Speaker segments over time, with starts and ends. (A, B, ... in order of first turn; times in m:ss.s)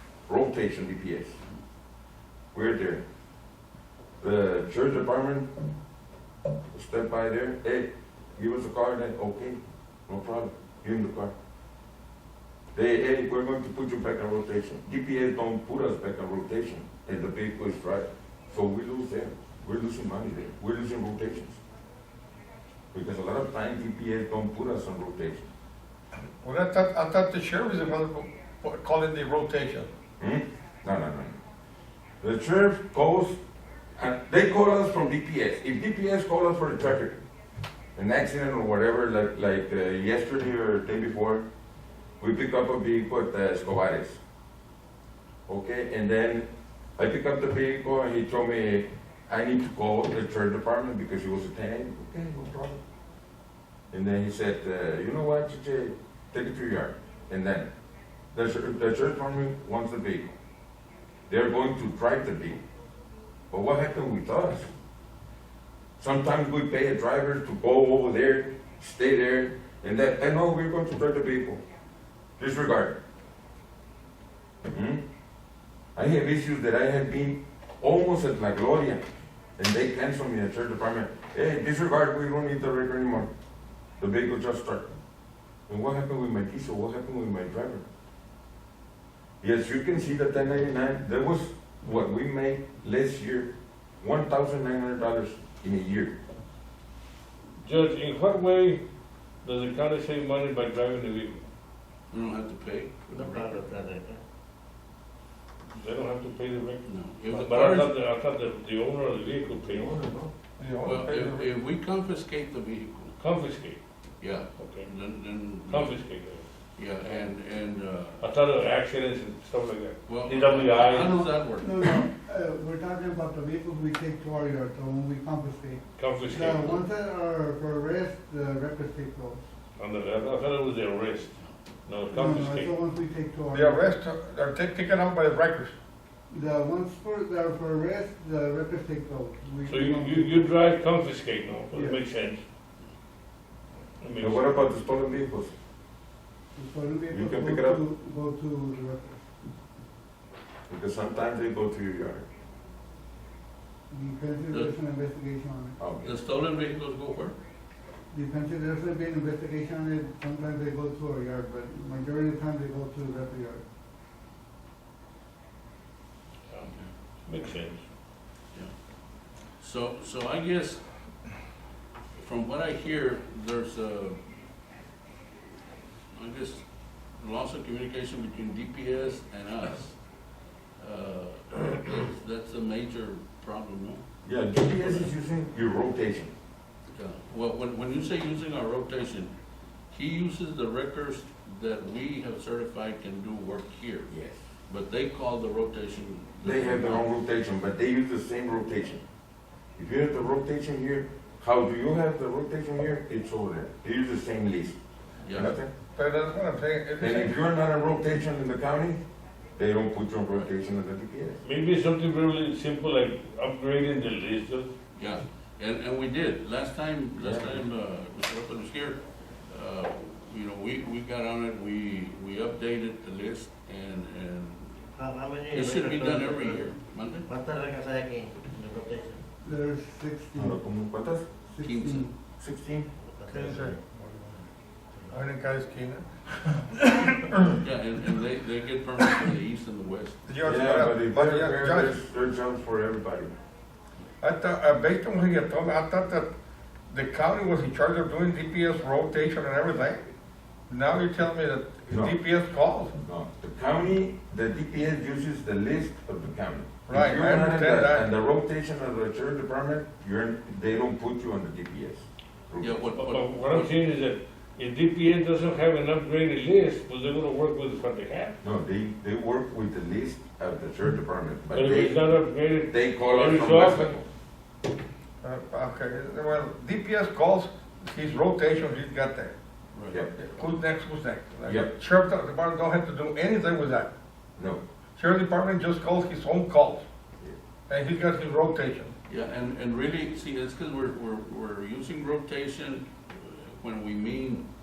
0:00.3-0:01.4 A
0:02.5-0:03.0 A
0:04.2-0:05.5 A
0:06.7-0:11.3 A
0:12.7-0:21.6 A
0:22.9-0:25.5 A
0:26.4-0:29.9 B
0:30.2-0:31.4 A
0:32.2-0:33.4 A
0:34.0-0:37.2 A
0:38.0-0:41.4 A
0:42.2-0:44.2 A
0:45.5-0:52.8 A
0:53.9-0:57.7 A
0:58.3-1:00.4 A
1:01.3-1:02.6 A
1:03.5-1:04.7 A
1:06.0-1:11.6 A
1:12.4-1:13.0 A
1:14.7-1:15.0 A
1:16.0-1:19.0 A
1:19.6-1:23.3 A
1:24.0-1:24.9 A
1:25.7-1:27.9 A
1:29.4-1:36.2 A
1:37.6-1:38.8 C
1:39.4-1:41.4 C
1:42.1-1:43.8 D
1:43.2-1:44.2 E
1:45.7-1:50.1 C
1:46.8-1:47.9 D
1:50.6-1:51.5 B
1:50.8-1:53.2 D
1:53.2-1:53.8 C
1:54.2-1:56.0 D
1:54.6-1:54.9 C
1:55.7-1:56.4 C
1:56.8-1:58.2 D
1:58.2-2:01.2 C
2:00.0-2:01.9 D
2:00.9-2:09.4 F
2:06.0-2:06.8 C
2:09.8-2:11.4 C
2:11.9-2:12.7 C
2:12.1-2:13.9 F
2:13.5-2:15.8 B
2:16.3-2:20.5 F
2:19.7-2:22.4 C
2:21.7-2:22.0 F
2:24.0-2:24.4 C
2:24.2-2:25.5 A
2:26.6-2:29.2 F
2:27.1-2:27.8 A
2:30.7-2:32.2 A
2:33.9-2:35.8 F
2:35.8-2:36.1 A
2:36.0-2:37.4 D
2:38.1-2:43.6 F
2:47.3-2:47.8 C
2:49.6-2:50.8 D
2:52.2-2:54.2 D
2:56.1-2:56.6 D
2:57.2-3:00.0 D
3:00.8-3:04.0 D
3:04.2-3:06.3 A
3:04.8-3:05.1 D
3:07.0-3:09.3 D
3:09.9-3:14.1 D
3:14.1-3:14.4 A
3:14.7-3:17.1 D
3:16.4-3:19.0 A
3:19.8-3:24.8 A
3:25.2-3:25.5 D
3:25.3-3:25.7 A
3:26.0-3:27.4 B
3:27.0-3:29.0 A
3:29.6-3:31.4 A
3:31.4-3:34.7 C
3:35.0-3:44.8 D
3:37.2-3:37.6 A
3:45.0-3:46.6 E
3:45.5-3:47.3 D
3:47.3-3:49.2 E
3:49.4-3:50.7 F
3:50.4-3:51.3 A
3:51.5-3:52.1 F
3:51.6-3:52.2 D
3:52.4-3:52.9 A
3:53.1-3:53.8 E
3:53.3-3:54.2 B
3:55.1-3:57.3 B
3:57.6-4:00.2 D
4:00.3-4:02.0 B
4:00.4-4:03.3 A
4:04.2-4:06.3 B
4:06.9-4:10.0 B
4:10.7-4:13.0 B
4:11.9-4:12.1 A
4:13.0-4:22.8 A
4:16.9-4:18.1 B
4:22.6-4:23.7 D
4:22.9-4:28.4 C
4:28.4-4:32.1 A
4:31.5-4:34.0 C
4:32.7-4:34.1 A
4:35.2-4:39.4 B
4:40.2-4:43.9 B
4:41.4-4:41.7 A
4:45.0-4:46.8 B
4:47.7-4:48.9 B
4:49.1-4:54.5 D